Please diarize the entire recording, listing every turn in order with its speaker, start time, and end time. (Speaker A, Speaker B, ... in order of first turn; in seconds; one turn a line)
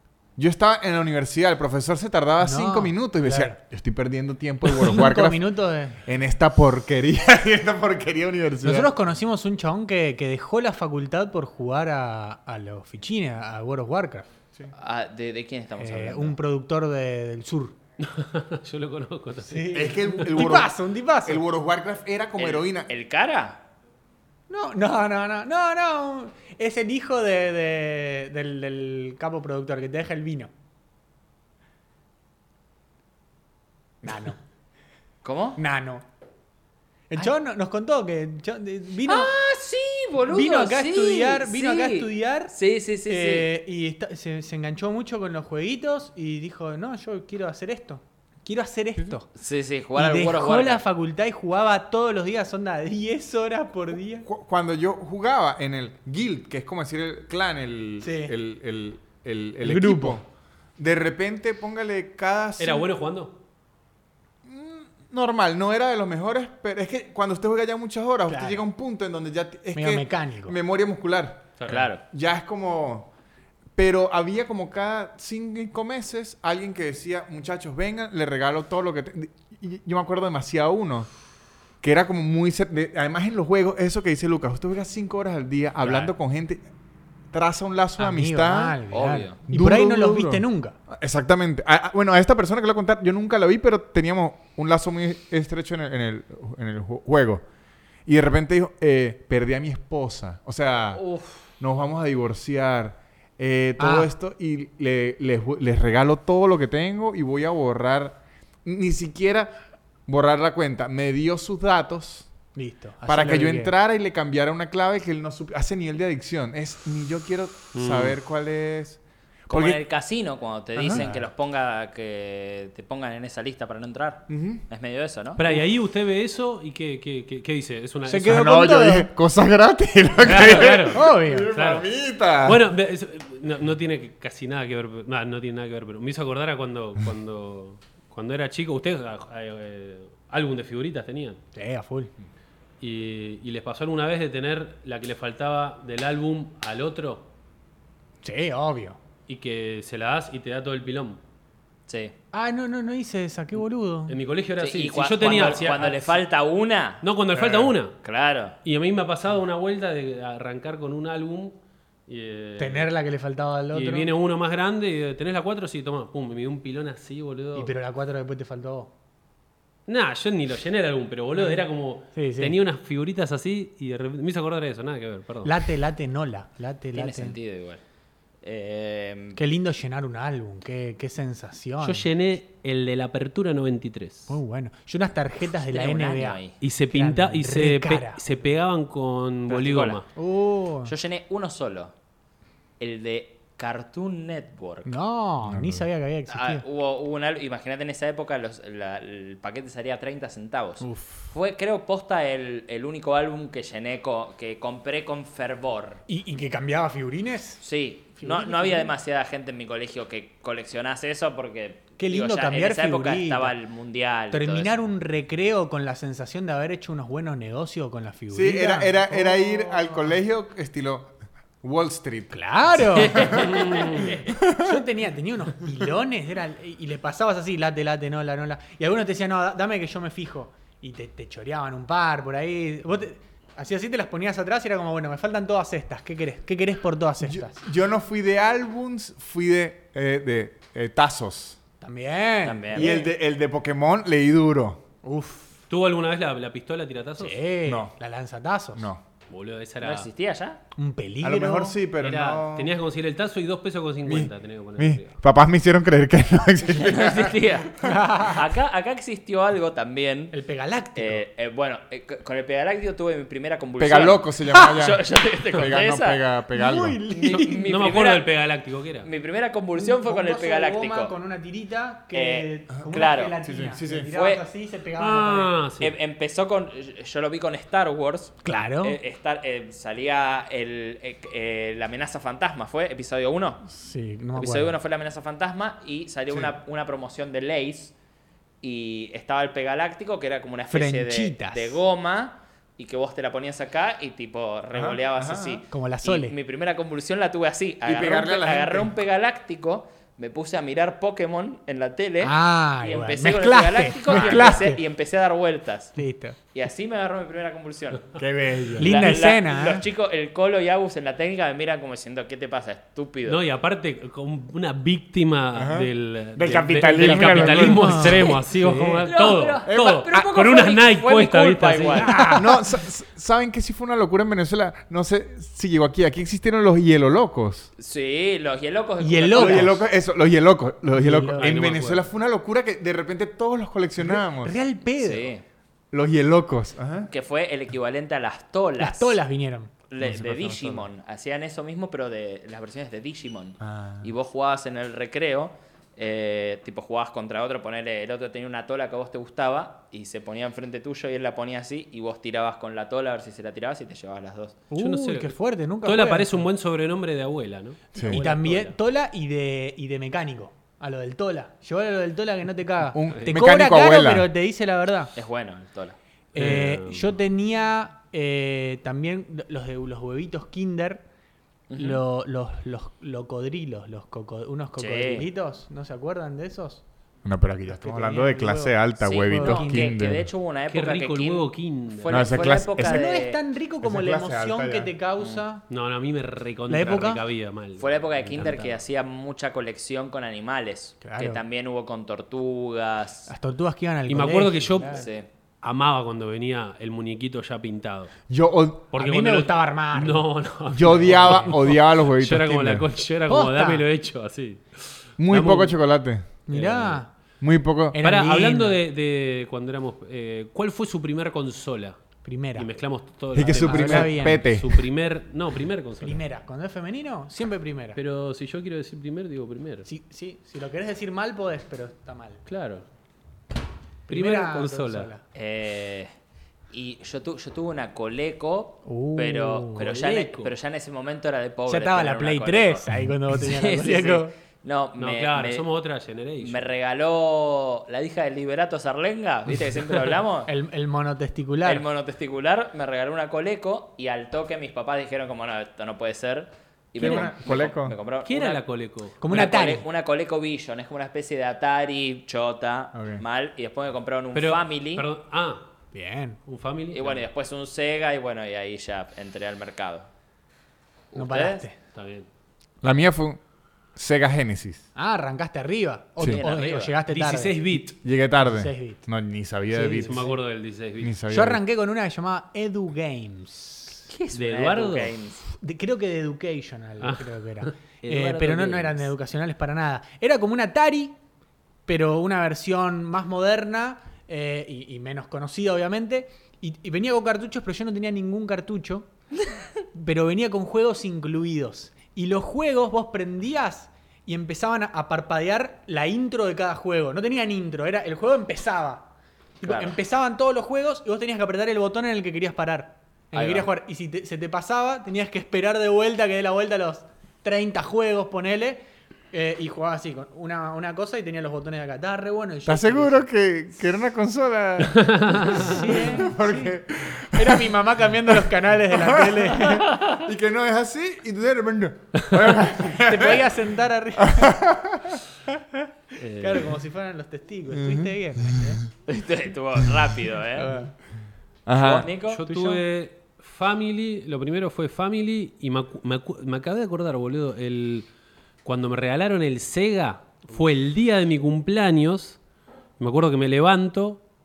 Speaker A: 0.3-8.9
Speaker B: 2.4-3.6
Speaker B: 4.7-6.0
Speaker B: 8.6-14.3
Speaker C: 14.7-16.4
Speaker B: 15.8-17.7
Speaker D: 18.0-20.4
Speaker B: 19.4-21.4
Speaker A: 19.7-22.9
Speaker C: 22.4-23.6
Speaker B: 24.5-30.5
Speaker B: 34.0-34.4
Speaker C: 35.2-35.6
Speaker B: 35.6-36.0
Speaker B: 37.1-39.3
Speaker C: 39.0-43.5
Speaker B: 40.3-42.5
Speaker B: 43.0-49.3
Speaker C: 49.3-50.8
Speaker B: 49.9-54.2
Speaker A: 54.2-60.2
Speaker B: 58.0-58.3
Speaker B: 59.6-60.2
Speaker A: 60.8-62.9
Speaker D: 62.6-63.3
Speaker A: 64.4-73.1
Speaker B: 68.3-68.6
Speaker B: 69.7-70.6
Speaker D: 71.6-71.9
Speaker C: 71.7-72.0
Speaker A: 73.8-81.1
Speaker A: 81.8-86.6
Speaker B: 85.8-86.1
Speaker A: 87.3-88.8
Speaker B: 88.0-90.8
Speaker C: 88.9-89.4
Speaker A: 89.5-97.4
Speaker A: 98.0-101.0
Speaker C: 100.9-101.5
Speaker A: 101.6-109.5
Speaker B: 103.8-104.1
Speaker A: 110.0-112.3
Speaker B: 112.5-113.7
Speaker A: 113.1-119.8
Speaker D: 117.7-118.2
Speaker C: 119.5-125.4
Speaker A: 120.8-121.0
Speaker B: 120.8-121.3
Speaker A: 124.3-124.6
Speaker D: 125.3-128.4
Speaker B: 128.1-129.1
Speaker A: 128.3-132.6
Speaker D: 130.2-131.8
Speaker B: 130.9-131.5
Speaker D: 132.4-141.4
Speaker B: 141.5-142.1
Speaker D: 142.8-147.3
Speaker B: 148.2-149.0
Speaker D: 149.3-151.2
Speaker C: 151.9-152.1
Speaker B: 152.3-154.2
Speaker D: 154.1-156.2
Speaker C: 154.6-157.0
Speaker D: 157.0-158.0
Speaker A: 157.3-157.7
Speaker C: 158.0-158.6
Speaker D: 158.6-161.6
Speaker D: 162.1-162.9
Speaker B: 162.6-164.1
Speaker D: 163.7-167.7
Speaker B: 167.5-168.9
Speaker D: 169.9-175.7
Speaker B: 171.3-172.6
Speaker B: 175.4-177.4
Speaker C: 176.9-177.8
Speaker C: 178.4-179.4
Speaker B: 179.3-182.0
Speaker D: 181.8-184.4
Speaker B: 184.3-186.4
Speaker C: 185.7-186.5
Speaker D: 186.6-190.0
Speaker B: 186.9-188.2
Speaker C: 189.5-190.0
Speaker B: 190.2-190.9
Speaker C: 190.8-191.9
Speaker C: 192.8-194.9
Speaker B: 194.8-196.6
Speaker A: 195.4-195.8
Speaker C: 196.3-206.0
Speaker B: 200.8-201.3
Speaker B: 206.1-207.6
Speaker C: 207.6-214.8
Speaker B: 208.2-208.9
Speaker B: 212.0-213.5
Speaker B: 214.3-220.2
Speaker A: 218.3-223.6
Speaker B: 222.3-237.6
Speaker C: 223.0-224.2
Speaker D: 223.4-224.0
Speaker A: 224.2-224.8
Speaker A: 237.2-241.6
Speaker B: 241.8-243.1
Speaker C: 242.4-243.0
Speaker A: 242.7-244.8
Speaker B: 245.0-245.6
Speaker D: 245.7-247.4
Speaker B: 247.2-248.9
Speaker A: 247.7-247.9
Speaker A: 248.7-249.0
Speaker D: 249.3-250.1
Speaker C: 249.8-250.6
Speaker B: 250.8-251.8
Speaker A: 251.2-252.7
Speaker D: 252.0-255.1
Speaker A: 254.0-257.9
Speaker C: 256.7-260.3
Speaker B: 257.8-258.4
Speaker B: 260.3-261.2
Speaker C: 260.9-266.2
Speaker A: 263.8-267.0
Speaker B: 266.5-267.7
Speaker C: 267.1-268.3
Speaker D: 267.3-269.1
Speaker C: 269.0-271.1
Speaker B: 269.7-275.5
Speaker C: 272.1-273.4
Speaker A: 272.7-274.1
Speaker C: 274.1-274.4
Speaker D: 275.0-275.9
Speaker C: 275.8-283.6
Speaker B: 278.4-279.0
Speaker B: 283.7-284.8
Speaker C: 284.3-287.9
Speaker C: 288.6-306.0
Speaker B: 290.7-291.8
Speaker A: 294.7-295.6
Speaker B: 295.7-296.3
Speaker A: 297.8-298.9
Speaker B: 302.2-304.8
Speaker A: 304.1-304.5
Speaker B: 305.9-306.4
Speaker C: 306.5-308.1
Speaker A: 308.1-309.1
Speaker B: 308.8-309.8
Speaker C: 308.8-313.4
Speaker D: 313.2-322.3
Speaker A: 315.5-318.4
Speaker B: 317.0-319.1
Speaker C: 319.0-322.3
Speaker A: 319.7-320.2
Speaker B: 322.0-322.6
Speaker A: 322.3-327.7
Speaker C: 327.8-329.8
Speaker B: 329.0-329.8
Speaker A: 329.3-334.6
Speaker B: 330.9-331.5
Speaker D: 331.4-332.1
Speaker B: 334.0-335.3
Speaker C: 335.0-335.4
Speaker A: 335.9-337.1
Speaker C: 337.1-339.2
Speaker B: 338.8-339.7
Speaker C: 339.9-354.6
Speaker A: 340.0-340.9
Speaker A: 343.6-344.1
Speaker B: 354.7-356.4
Speaker D: 354.8-358.7
Speaker B: 358.0-365.1
Speaker A: 362.9-364.3
Speaker C: 365.1-366.0
Speaker B: 366.3-371.0
Speaker D: 366.3-367.1
Speaker C: 371.7-372.0
Speaker B: 371.8-376.8
Speaker C: 374.8-375.3
Speaker A: 377.2-380.3
Speaker B: 377.6-379.9
Speaker C: 379.0-383.4
Speaker D: 380.7-382.5
Speaker A: 382.1-383.0
Speaker B: 382.8-385.6
Speaker A: 383.8-384.9
Speaker D: 385.7-388.8
Speaker B: 386.7-387.2
Speaker C: 387.8-393.3
Speaker B: 391.0-391.4
Speaker B: 393.3-395.1
Speaker D: 394.1-395.1
Speaker C: 394.9-395.2
Speaker D: 395.6-398.1
Speaker A: 398.3-398.9
Speaker D: 398.9-405.8
Speaker B: 399.0-400.3
Speaker A: 400.7-402.9
Speaker B: 400.8-401.5
Speaker B: 403.3-403.9
Speaker A: 405.2-406.2
Speaker B: 406.4-407.1
Speaker D: 406.5-407.0
Speaker A: 407.4-408.0
Speaker B: 407.9-408.8
Speaker D: 408.0-412.0
Speaker B: 412.2-412.7
Speaker D: 412.5-416.2
Speaker A: 413.3-414.8
Speaker B: 413.5-414.4
Speaker B: 416.0-418.0
Speaker D: 417.9-419.9
Speaker B: 419.9-422.4
Speaker D: 422.5-422.8
Speaker B: 424.1-425.2
Speaker D: 424.1-425.1
Speaker C: 425.3-426.1
Speaker C: 426.7-435.6
Speaker B: 428.8-429.9
Speaker D: 429.8-430.5
Speaker B: 431.7-434.3
Speaker D: 435.0-436.6
Speaker C: 436.4-440.5
Speaker B: 440.5-441.9
Speaker C: 441.6-448.6
Speaker A: 447.0-447.9
Speaker D: 447.0-447.3
Speaker D: 448.2-449.2
Speaker B: 449.2-449.8
Speaker C: 449.3-455.1
Speaker A: 452.9-453.2
Speaker D: 454.3-455.6
Speaker B: 455.9-456.4
Speaker D: 456.5-457.3
Speaker C: 456.9-460.1
Speaker C: 461.1-461.6
Speaker B: 461.1-461.8
Speaker D: 461.9-462.3
Speaker A: 462.8-463.4
Speaker A: 463.9-464.8
Speaker B: 464.9-467.6
Speaker C: 466.2-467.0
Speaker D: 467.1-467.9
Speaker A: 468.0-470.3
Speaker B: 468.4-469.0
Speaker B: 469.7-470.3
Speaker D: 470.0-471.1
Speaker A: 471.0-471.6
Speaker B: 471.3-474.1
Speaker C: 474.1-475.4
Speaker D: 474.3-475.1
Speaker B: 475.5-481.1
Speaker D: 477.0-479.1
Speaker B: 481.9-489.1
Speaker B: 489.9-513.3
Speaker C: 499.6-500.0
Speaker C: 503.3-503.7
Speaker A: 512.6-523.5
Speaker D: 514.9-515.9
Speaker B: 515.5-516.8
Speaker B: 517.3-519.9
Speaker C: 519.6-520.3
Speaker B: 522.9-524.6
Speaker A: 524.2-525.2
Speaker D: 526.2-526.7
Speaker B: 526.3-528.8
Speaker A: 527.7-528.1
Speaker C: 529.1-530.7
Speaker B: 530.5-530.9
Speaker A: 531.6-532.1
Speaker C: 531.8-532.4
Speaker D: 532.2-538.1
Speaker B: 532.5-532.8
Speaker D: 538.6-542.4
Speaker D: 543.0-544.2